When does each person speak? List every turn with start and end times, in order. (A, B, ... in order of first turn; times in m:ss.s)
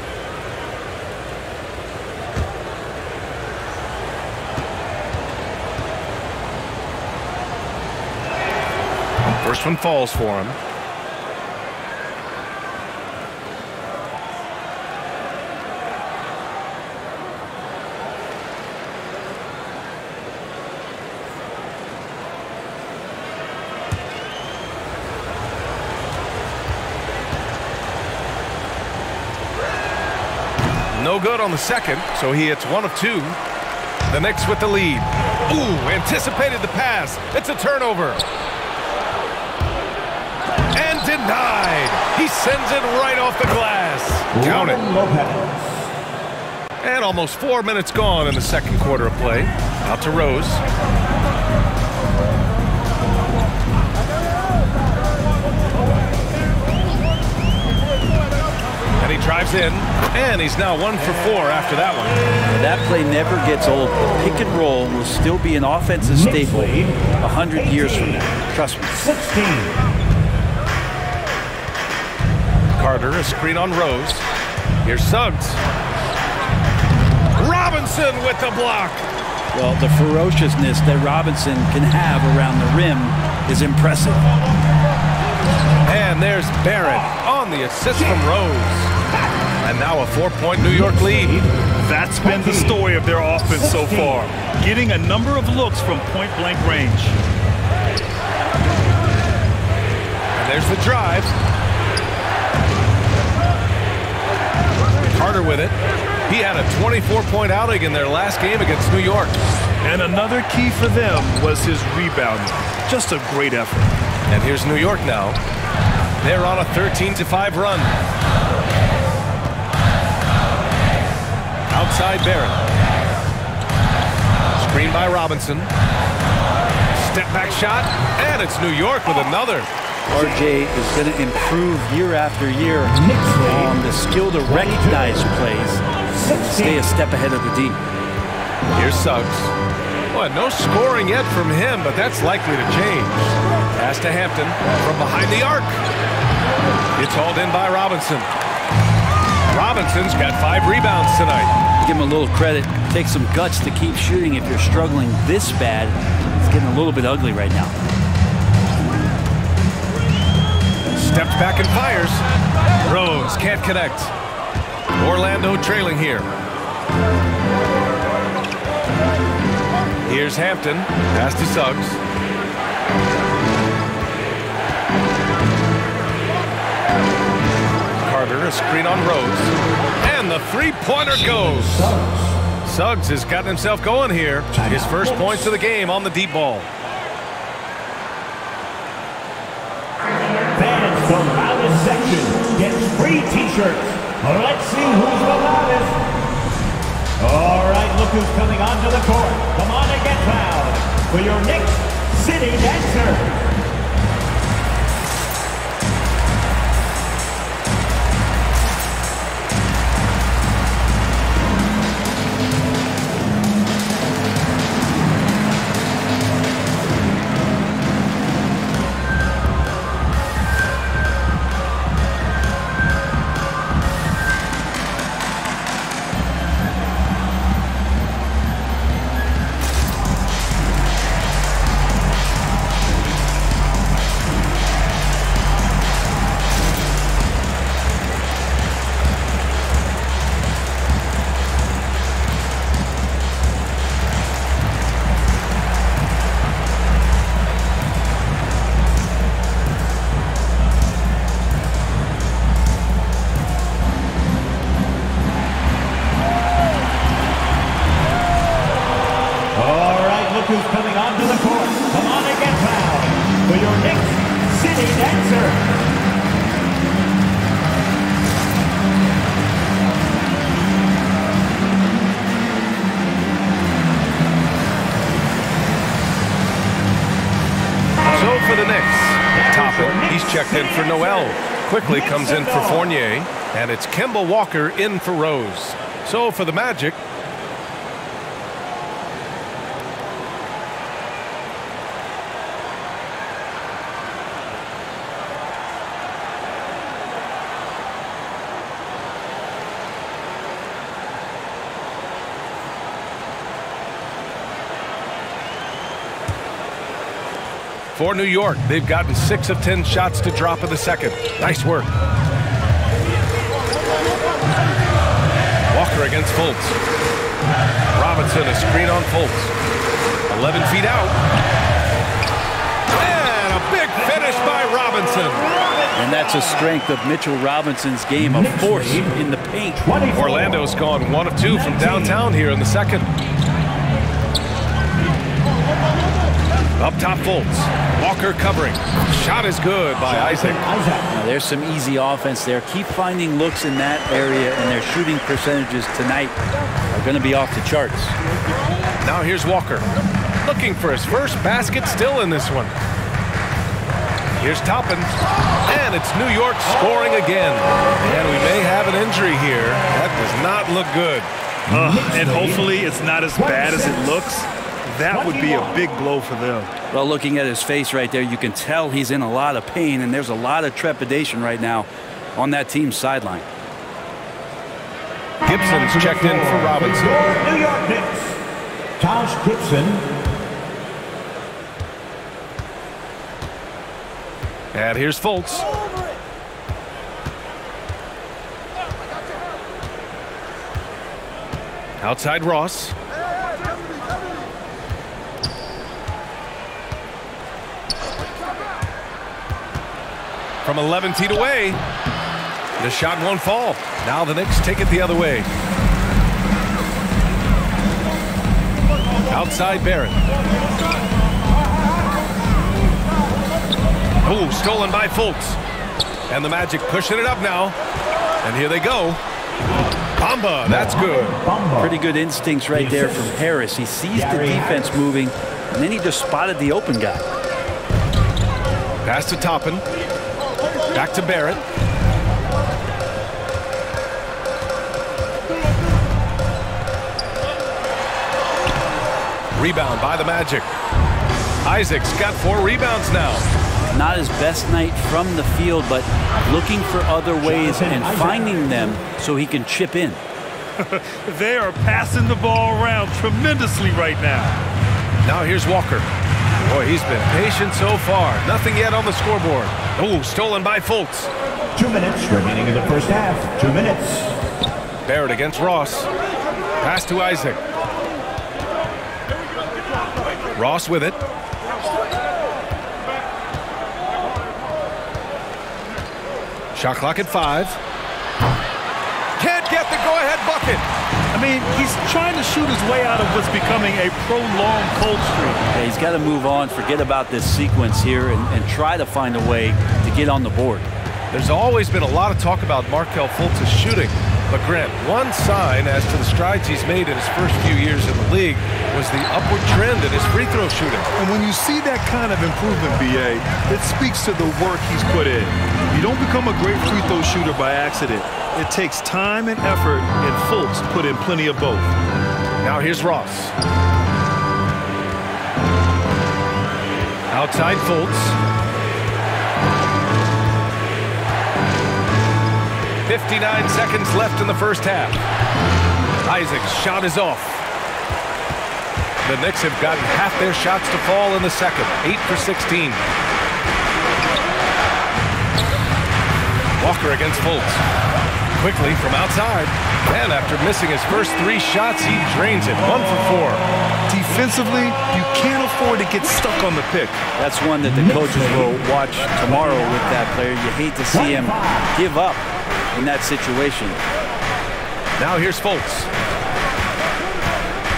0:09.4-0:10.6 A
0:30.9-0:33.4 A
0:34.1-0:38.2 A
0:40.7-0:44.8 A
0:44.3-0:45.9 B
0:46.8-0:50.6 A
0:59.0-1:02.2 A
1:02.5-1:09.0 C
1:06.0-1:08.4 B
1:08.9-1:09.8 B
1:12.8-1:14.3 A
1:14.8-1:15.6 A
1:17.4-1:19.1 A
1:19.5-1:24.2 C
1:25.8-1:28.9 A
1:29.1-1:29.5 B
1:29.6-1:31.4 A
1:30.6-1:31.6 B
1:31.8-1:37.2 D
1:32.2-1:32.8 B
1:33.4-1:34.3 B
1:40.4-1:41.3 A
1:45.1-1:45.8 A
1:46.3-1:49.4 A
1:49.8-1:53.9 D
1:54.3-1:55.4 A
1:56.2-1:57.9 A
2:01.7-2:02.6 A
2:04.6-2:05.7 A
2:07.0-2:09.7 A
2:10.1-2:17.8 C
2:12.9-2:13.8 B
2:14.4-2:15.3 B
2:16.1-2:16.9 B
2:18.8-2:19.5 A
2:20.1-2:25.8 A
2:27.0-2:28.3 A
2:29.5-2:31.5 A
2:31.8-2:37.7 C
2:40.9-2:42.2 A
2:42.8-2:44.1 A
2:45.0-2:46.3 A
2:50.1-2:52.0 A
2:58.0-3:01.9 A
3:01.1-3:02.4 B
3:02.6-3:06.7 A
3:04.5-3:05.6 B
3:10.5-3:16.0 B
3:17.2-3:23.4 B
4:19.5-4:25.7 B
4:38.1-4:47.0 A
4:38.1-4:38.4 B
4:39.3-4:43.0 B
5:07.9-5:11.9 A
5:15.7-5:16.8 A
5:17.9-5:19.5 A
5:20.3-5:21.2 A
5:22.9-5:25.5 A
5:26.0-5:29.8 C
5:26.1-5:26.7 B
5:28.2-5:29.2 B
5:29.8-5:30.7 B
5:30.1-5:33.1 A
5:31.5-5:32.2 B
5:36.8-5:40.6 A
5:40.0-5:41.1 B
5:41.1-5:46.4 C
5:46.9-5:48.2 C
5:49.0-5:49.9 A
5:50.4-5:52.7 A
5:54.4-5:55.1 A
5:55.7-6:01.3 A
5:58.1-5:58.4 B
6:01.7-6:02.7 B
6:01.7-6:06.7 D
6:03.3-6:04.2 B
6:05.1-6:05.8 B
6:06.9-6:13.5 C
6:15.4-6:17.2 A
6:15.4-6:18.4 B
6:19.0-6:20.1 B
6:24.7-6:25.6 A
6:32.0-6:33.0 A
6:40.6-6:41.8 A
6:42.8-6:45.5 A
6:49.3-6:50.2 A
6:54.2-6:55.6 A
6:56.3-6:57.8 A
6:58.4-6:59.2 A
7:00.2-7:01.4 A
7:00.7-7:02.0 B
7:01.8-7:07.2 C
7:02.7-7:03.4 B
7:04.1-7:05.0 B
7:09.0-7:09.8 A
7:10.9-7:11.6 A
7:19.6-7:20.7 A
7:21.6-7:23.4 A
7:23.9-7:30.2 C
7:27.4-7:29.0 B
7:30.8-7:34.6 D
7:35.2-7:36.1 A
7:36.6-7:41.3 A
7:41.8-7:44.3 B
7:45.0-7:46.1 A
7:46.8-7:47.6 A
7:50.6-7:51.2 A
7:56.8-7:57.8 A
7:59.4-8:00.8 A
8:01.3-8:05.7 D
8:05.7-8:10.9 C
8:11.3-8:21.1 A
8:21.2-8:32.0 D
8:32.6-8:33.5 A
8:37.3-8:38.4 A
8:43.1-8:45.2 A
8:46.2-8:47.6 A
8:49.2-8:53.0 A
8:56.8-8:57.8 A
8:58.6-9:03.6 A
9:04.1-9:07.2 D
9:07.4-9:14.0 C
9:07.8-9:08.8 B
9:11.1-9:12.0 B
9:15.2-9:16.1 A